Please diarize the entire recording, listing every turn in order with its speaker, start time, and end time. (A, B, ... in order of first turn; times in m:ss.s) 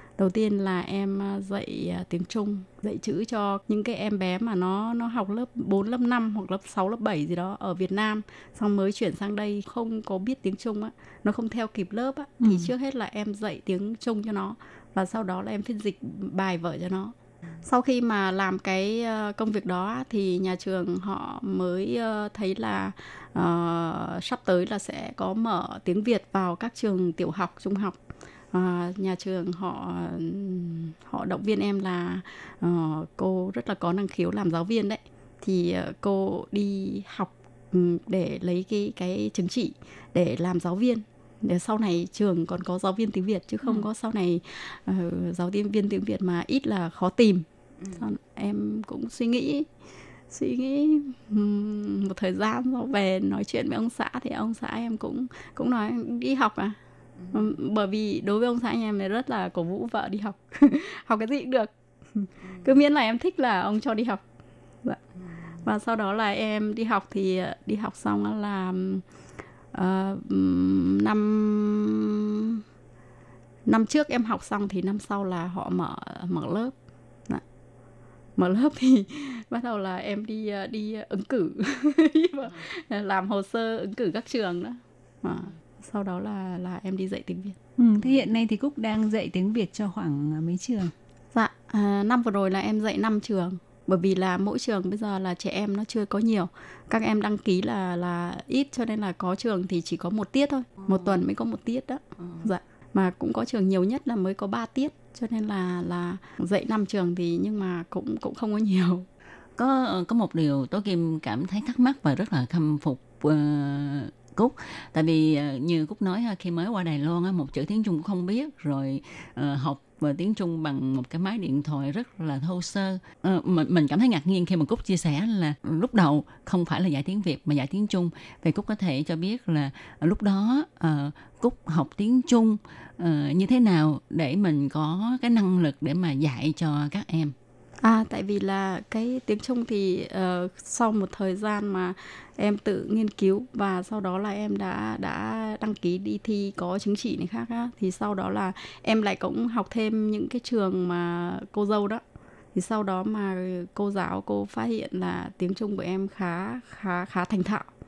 0:00.2-0:28.0 A
0:12.4-0:12.7 B
0:28.5-0:49.7 A
0:47.8-0:48.0 C
0:50.3-0:56.8 A
0:57.2-0:57.4 C
0:57.3-1:04.2 A
1:05.6-1:09.0 A
1:09.7-1:12.6 A
1:13.6-1:16.7 A
1:18.4-1:27.6 A
1:27.8-1:30.9 B
1:31.3-1:49.0 A
1:40.8-1:41.2 C
1:42.2-1:42.5 C
1:49.6-2:17.3 C
2:17.8-2:32.0 A
2:32.5-2:37.7 A